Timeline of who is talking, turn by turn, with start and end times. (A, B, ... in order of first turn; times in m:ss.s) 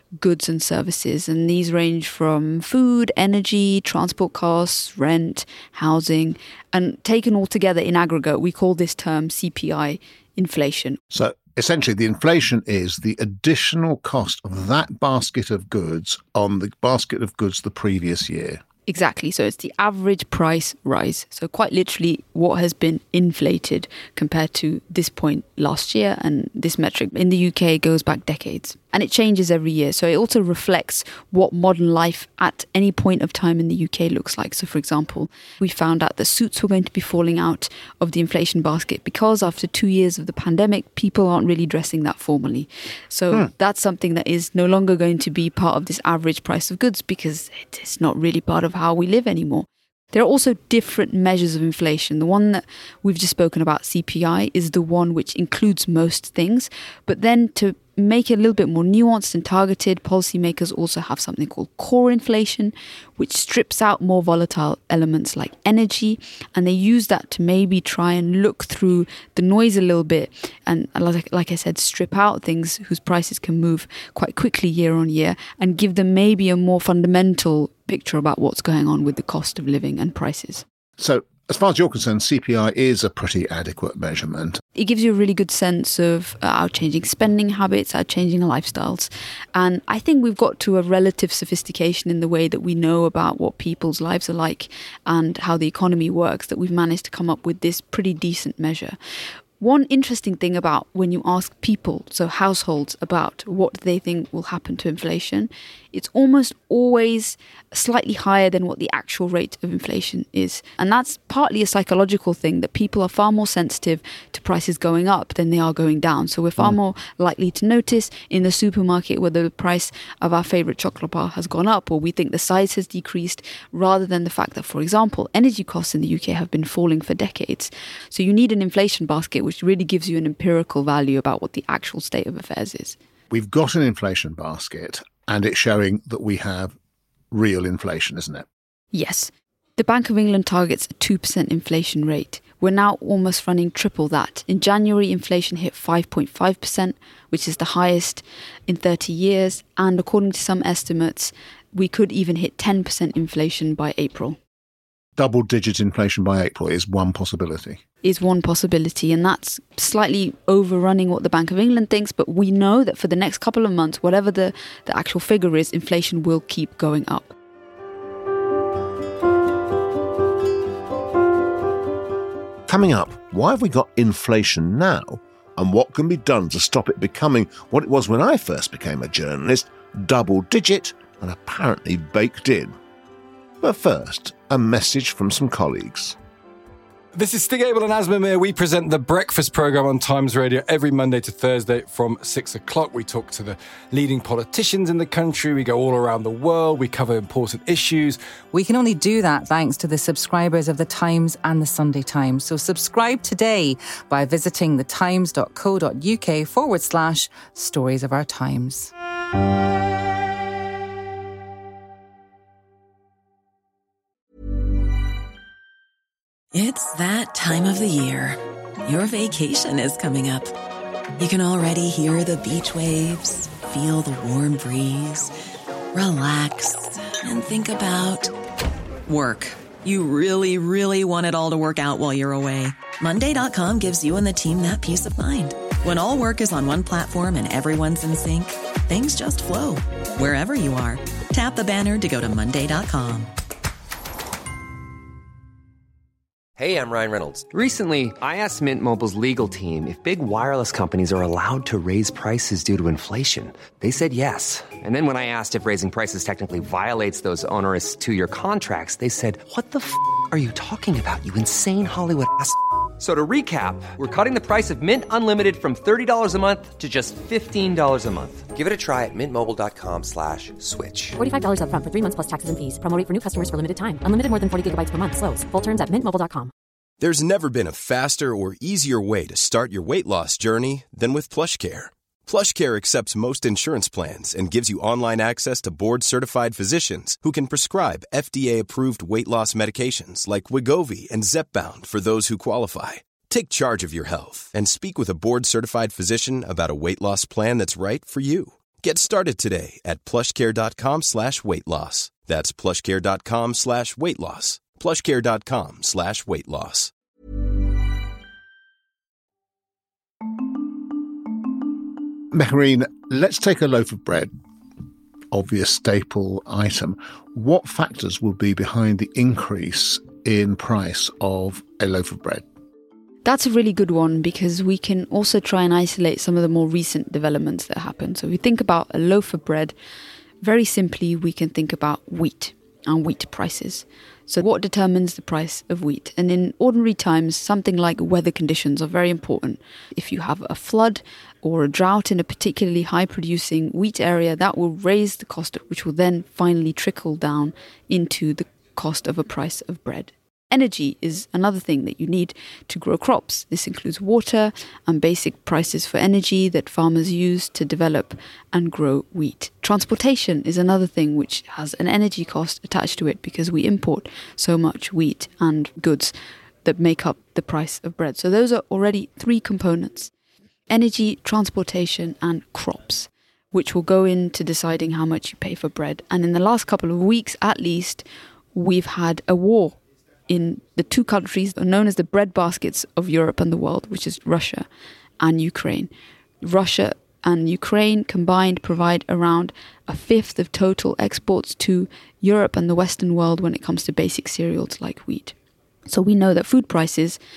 0:00.2-0:11.0 A
0:11.1-0:18.6 B
0:18.9-1:20.6 A
1:21.0-1:24.6 B
1:24.8-1:39.0 A
1:39.6-2:13.0 A
2:13.3-2:16.7 B
2:17.3-2:18.5 B
2:18.9-2:34.4 A
2:35.2-2:37.8 B
2:38.0-2:47.3 A
2:52.7-3:02.7 C
3:03.6-3:06.2 C
3:07.1-3:18.2 D
3:18.5-3:28.9 E
3:36.5-3:40.5 F
3:41.2-3:45.3 F
3:45.9-3:48.3 F
3:49.0-4:03.3 F
4:06.6-4:31.2 G
4:31.2-4:36.5 H
4:37.0-5:06.9 I
5:12.3-5:14.3 B
5:15.3-5:22.4 B
5:23.2-5:29.7 A
5:30.4-6:10.1 A
6:10.7-6:18.0 A
6:18.5-6:24.6 A
6:25.2-6:25.9 A
6:26.4-6:35.3 A
6:35.9-6:37.2 A